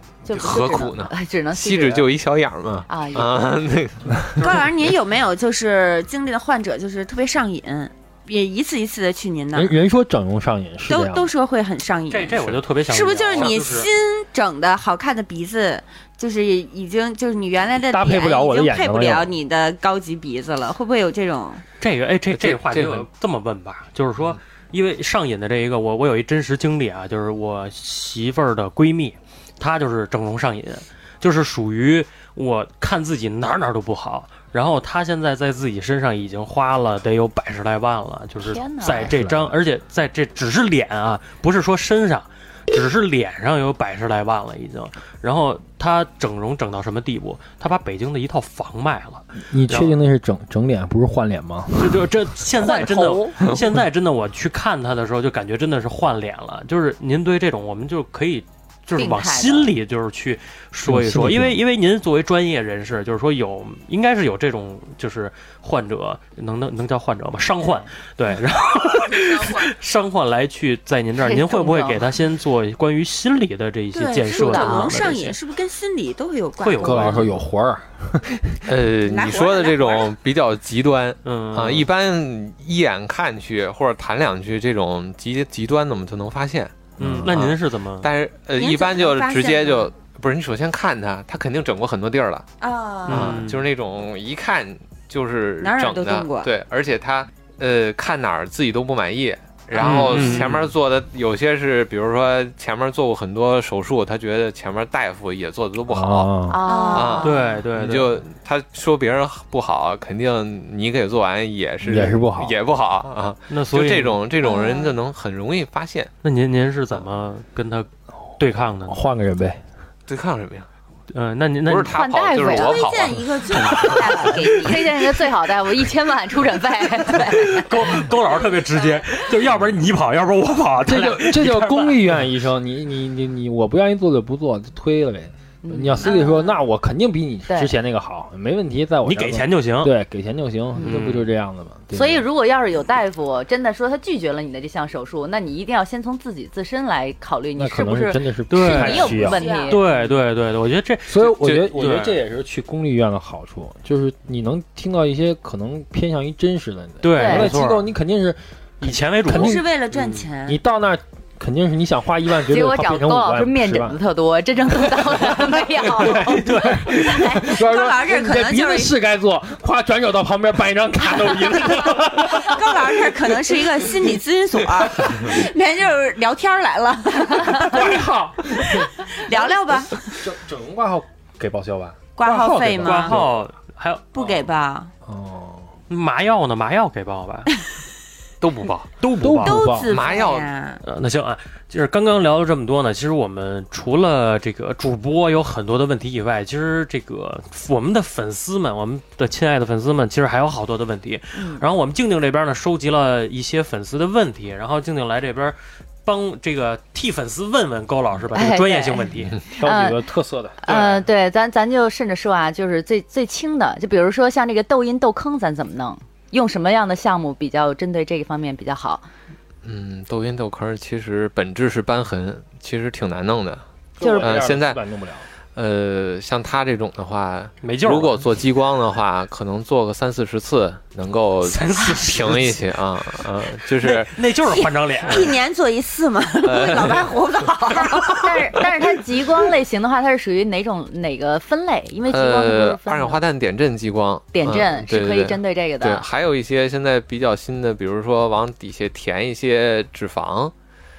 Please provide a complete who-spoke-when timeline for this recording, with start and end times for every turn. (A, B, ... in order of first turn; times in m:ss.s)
0:00.2-0:02.1 A
0:00.3-0:04.6 B
0:02.9-0:03.4 A
0:04.4-0:09.7 C
0:09.5-0:11.3 D
0:10.9-0:21.6 C
0:12.1-0:13.9 E
0:12.4-0:12.6 B
0:17.9-0:19.3 D
0:21.8-0:50.0 E
0:22.3-0:23.1 B
0:38.4-0:39.1 A
0:39.0-0:39.6 D
0:49.4-0:52.1 D
0:51.8-1:15.4 E
0:59.0-0:59.7 A
1:00.8-1:01.6 D
1:11.2-1:12.0 A
1:13.9-1:17.3 C
1:14.3-1:15.0 A
1:16.6-1:17.3 E
1:16.8-1:18.8 D
1:18.7-1:32.5 B
1:19.0-1:20.1 C
1:21.2-1:21.9 E
1:27.0-1:28.1 E
1:27.0-1:27.4 D
1:28.6-1:29.9 C
1:32.6-1:33.4 C
1:33.1-1:33.7 E
1:33.1-1:46.3 B
1:35.6-1:36.5 C
1:39.7-1:40.7 E
1:45.9-1:46.6 D
1:46.5-1:47.6 A
1:46.6-1:47.4 C
1:46.9-1:56.1 B
1:47.2-1:48.2 E
1:51.8-1:52.6 D
1:53.5-1:54.2 E
1:54.4-1:54.9 C
1:56.2-1:59.0 E
1:58.9-1:59.6 D
2:00.1-2:00.7 B
2:01.1-2:02.0 E
2:01.7-2:04.3 B
2:01.9-2:02.9 A
2:02.4-2:05.2 C
2:04.6-2:07.7 A
2:07.3-2:12.2 E
2:10.8-2:22.3 D
2:15.6-2:16.5 A
2:16.1-2:16.5 C
2:17.5-2:17.7 A
2:19.0-2:20.0 E
2:20.8-2:21.3 E
2:21.9-2:29.9 A
2:27.6-2:29.5 D
2:28.5-2:32.2 E
2:28.8-2:29.9 C
2:31.1-2:39.7 D
2:37.0-2:37.9 E
2:37.1-2:37.5 A
2:38.8-2:40.3 E
2:39.3-2:40.6 C
2:40.5-2:44.0 D
2:42.5-2:46.6 A
2:45.8-2:54.0 D
2:46.9-2:48.9 C
2:52.0-2:58.0 C
2:57.5-3:03.4 D
2:58.6-3:00.2 C
3:02.2-3:03.2 C
3:02.8-3:04.5 E
3:04.1-3:04.9 C
3:05.0-3:05.8 D
3:05.9-3:07.6 E
3:08.4-3:08.9 B
3:09.0-3:09.8 E
3:09.2-3:09.9 D
3:09.4-3:10.8 C
3:09.9-3:10.5 B
3:10.8-3:29.4 E
3:21.4-3:21.6 A
3:28.3-3:30.0 A
3:29.5-3:30.8 D
3:30.6-3:39.1 A
3:30.7-3:31.0 E
3:39.6-3:44.8 B
3:44.0-3:45.3 D
3:44.0-3:44.4 A
3:45.6-3:54.3 B
3:47.6-3:48.2 E
3:51.4-3:52.6 E
3:53.7-3:55.4 E
3:54.4-3:58.6 C
3:56.4-3:57.3 B
3:57.8-4:03.2 A
3:58.0-3:58.3 B
4:02.1-4:10.5 B
4:04.3-4:06.1 A